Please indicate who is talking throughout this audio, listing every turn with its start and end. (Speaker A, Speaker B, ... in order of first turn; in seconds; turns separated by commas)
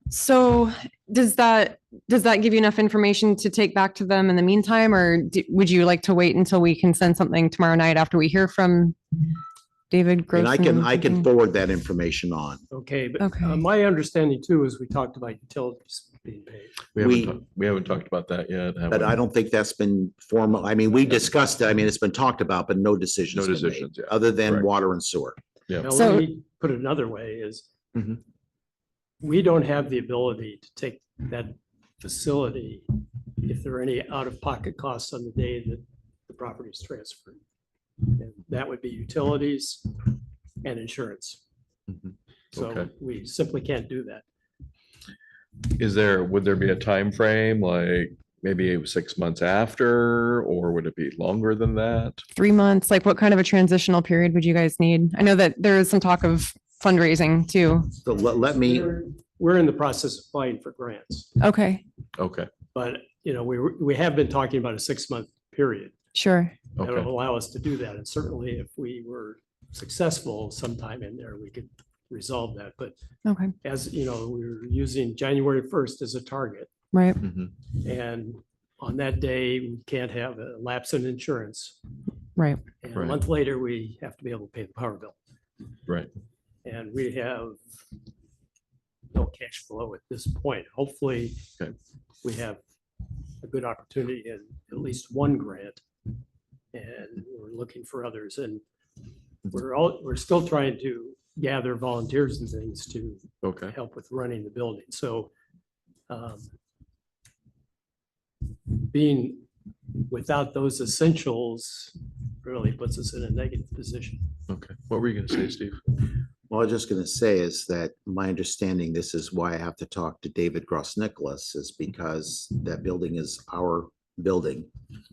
Speaker A: 0.1-9.0, Speaker A: 9.9-11.2, Speaker B: 10.3-12.6, Speaker C: 12.7-16.9, Speaker A: 13.2-13.6, Speaker D: 16.9-19.2, Speaker B: 17.0-17.4, Speaker B: 18.9-25.4, Speaker D: 23.3-24.6, Speaker C: 25.8-27.6, Speaker A: 25.9-26.2, Speaker C: 29.2-37.4, Speaker C: 38.0-40.1, Speaker C: 40.6-41.4, Speaker D: 41.9-42.9, Speaker C: 42.5-44.2, Speaker D: 45.6-52.2, Speaker A: 52.4-57.9, Speaker B: 57.9-59.0, Speaker C: 58.7-61.3, Speaker A: 61.4-61.8, Speaker D: 62.1-62.5, Speaker C: 62.7-65.9, Speaker A: 66.1-66.5, Speaker D: 66.8-67.1, Speaker C: 66.8-72.9, Speaker A: 73.2-73.5, Speaker C: 73.6-76.7, Speaker A: 76.9-77.2, Speaker D: 77.2-77.5, Speaker C: 77.7-81.8, Speaker A: 82.4-82.6, Speaker C: 82.8-85.2, Speaker C: 86.6-87.6, Speaker C: 89.1-91.5, Speaker C: 92.2-92.6, Speaker C: 93.4-95.8, Speaker C: 96.7-98.6, Speaker C: 99.5-105.3, Speaker D: 103.4-103.7, Speaker C: 106.1-106.5, Speaker C: 108.7-109.5, Speaker C: 110.1-114.3, Speaker D: 114.5-116.0, Speaker B: 116.5-124.7